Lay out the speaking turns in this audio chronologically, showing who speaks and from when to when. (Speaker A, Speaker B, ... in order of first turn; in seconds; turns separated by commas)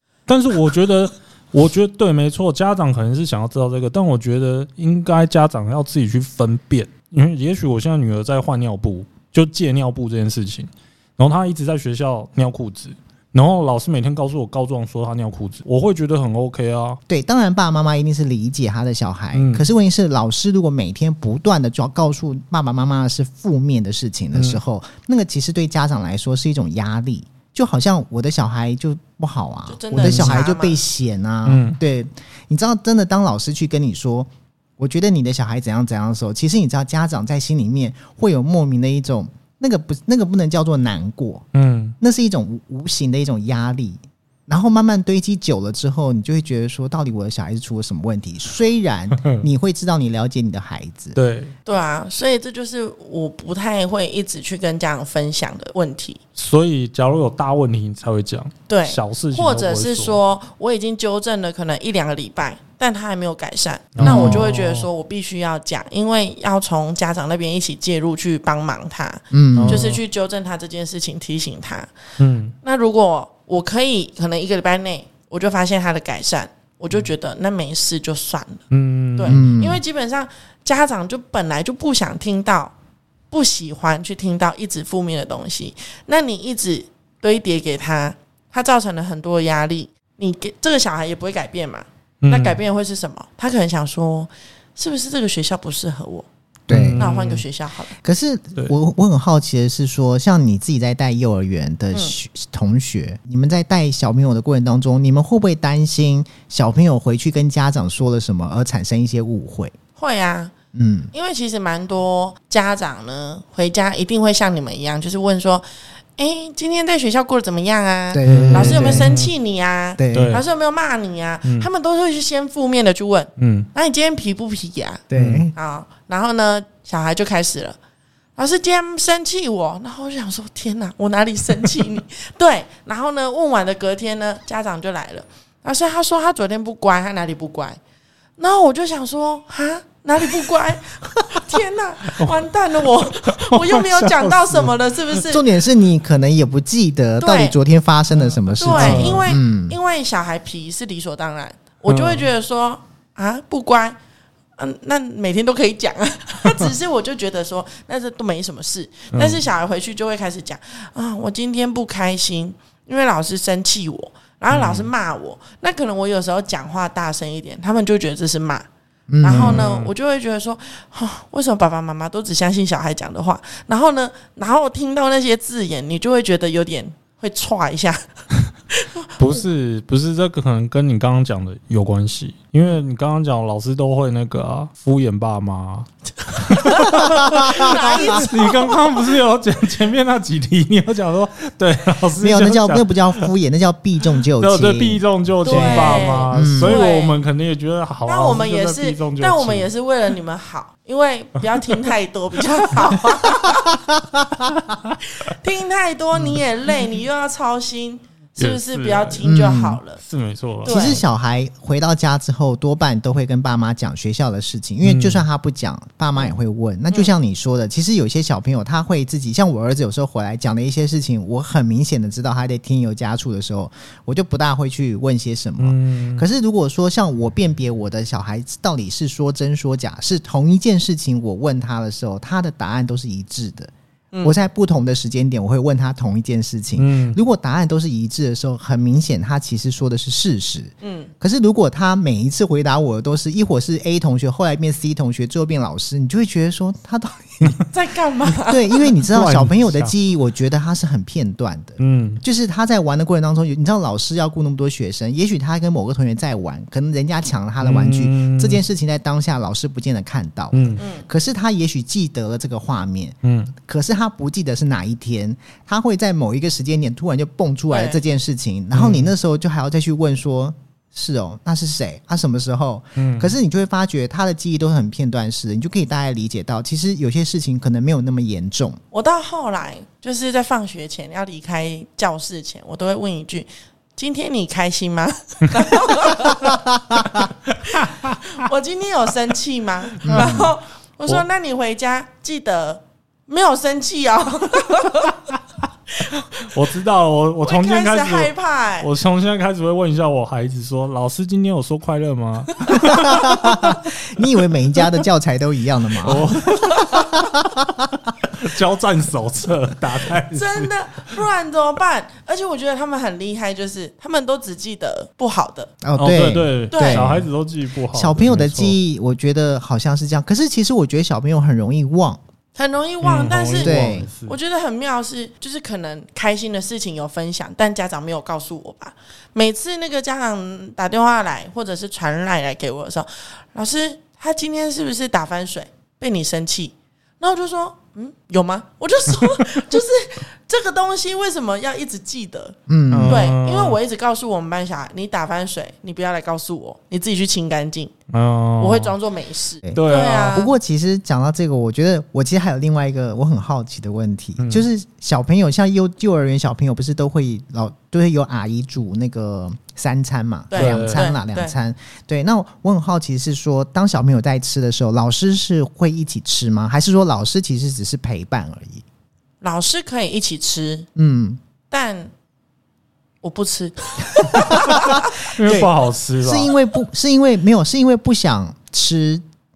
Speaker A: 0.3-17.0, Speaker B: 17.1-41.5, Speaker A: 19.3-19.6, Speaker A: 24.3-24.6, Speaker C: 29.7-30.8, Speaker A: 30.0-30.4, Speaker A: 31.4-31.8, Speaker A: 41.5-42.0, Speaker B: 42.0-51.1, Speaker A: 49.2-49.4, Speaker A: 51.1-51.5, Speaker C: 51.6-56.2, Speaker A: 56.4-60.2, Speaker C: 58.7-71.9, Speaker A: 64.0-64.9, Speaker B: 64.0-64.5, Speaker B: 69.3-69.9, Speaker A: 69.5-70.0, Speaker A: 72.2-72.5, Speaker C: 72.6-78.6, Speaker A: 78.7-79.4, Speaker C: 79.2-82.7, Speaker B: 79.3-79.8, Speaker C: 83.3-96.3, Speaker A: 92.2-92.6, Speaker B: 96.7-97.1, Speaker A: 96.7-97.4, Speaker C: 97.0-98.0, Speaker B: 98.0-109.7, Speaker C: 110.0-110.5, Speaker B: 110.7-111.1, Speaker C: 111.1-127.8, Speaker B: 118.1-119.2, Speaker A: 118.2-119.3, Speaker B: 120.0-120.4, Speaker A: 120.1-120.4, Speaker A: 123.4-123.7, Speaker B: 125.1-125.5, Speaker A: 125.1-125.5, Speaker C: 128.3-137.8, Speaker C: 138.4-145.4, Speaker A: 142.1-144.8, Speaker B: 145.2-149.8, Speaker C: 147.2-147.6, Speaker A: 148.2-149.3, Speaker C: 148.6-154.0, Speaker A: 151.9-152.3, Speaker C: 154.6-168.7, Speaker A: 159.1-159.4, Speaker A: 164.5-164.9, Speaker B: 169.1-169.7, Speaker C: 169.2-178.0, Speaker A: 169.3-169.9, Speaker C: 178.7-179.4, Speaker A: 179.2-193.3, Speaker C: 186.2-189.0, Speaker B: 187.0-188.2, Speaker B: 192.2-196.8, Speaker A: 194.4-199.7, Speaker C: 195.4-197.2, Speaker C: 198.1-203.8, Speaker A: 204.5-204.9, Speaker C: 205.0-210.0, Speaker A: 208.4-209.2, Speaker B: 209.2-209.8, Speaker A: 210.0-211.0, Speaker C: 210.6-211.0, Speaker B: 210.6-233.7, Speaker A: 214.8-215.2, Speaker A: 225.6-226.2, Speaker C: 234.1-234.4, Speaker B: 234.2-247.6, Speaker A: 236.8-237.2, Speaker C: 240.8-241.1, Speaker C: 247.7-248.9, Speaker B: 248.2-278.8, Speaker A: 249.0-249.9, Speaker A: 251.8-252.2, Speaker A: 257.6-258.6, Speaker A: 260.5-260.8, Speaker C: 260.8-261.1, Speaker A: 263.2-263.5, Speaker C: 267.7-268.0, Speaker A: 268.7-269.1, Speaker A: 273.0-273.3, Speaker C: 278.9-286.6, Speaker B: 286.5-287.0, Speaker A: 287.5-288.2, Speaker C: 287.7-295.2, Speaker A: 290.0-290.5, Speaker B: 290.0-290.5, Speaker C: 296.0-296.5, Speaker A: 296.4-303.8, Speaker C: 297.4-298.9, Speaker B: 302.7-306.4, Speaker A: 306.0-307.1, Speaker C: 306.5-307.2, Speaker B: 307.0-307.8, Speaker A: 308.4-311.1, Speaker C: 310.3-315.7, Speaker B: 315.8-317.3, Speaker A: 315.9-318.8, Speaker C: 316.7-317.1, Speaker B: 317.9-322.2, Speaker C: 322.6-347.9, Speaker A: 323.0-324.4, Speaker B: 323.6-324.1, Speaker B: 342.7-343.3, Speaker A: 342.9-343.8, Speaker A: 348.1-348.9, Speaker C: 348.6-350.5, Speaker B: 349.6-368.8, Speaker A: 349.7-350.4, Speaker A: 354.4-354.6, Speaker C: 360.5-361.5, Speaker A: 360.6-361.1, Speaker C: 369.4-370.9, Speaker B: 370.9-371.4, Speaker C: 371.7-372.1, Speaker C: 373.2-375.1, Speaker B: 374.2-379.2, Speaker A: 375.2-376.5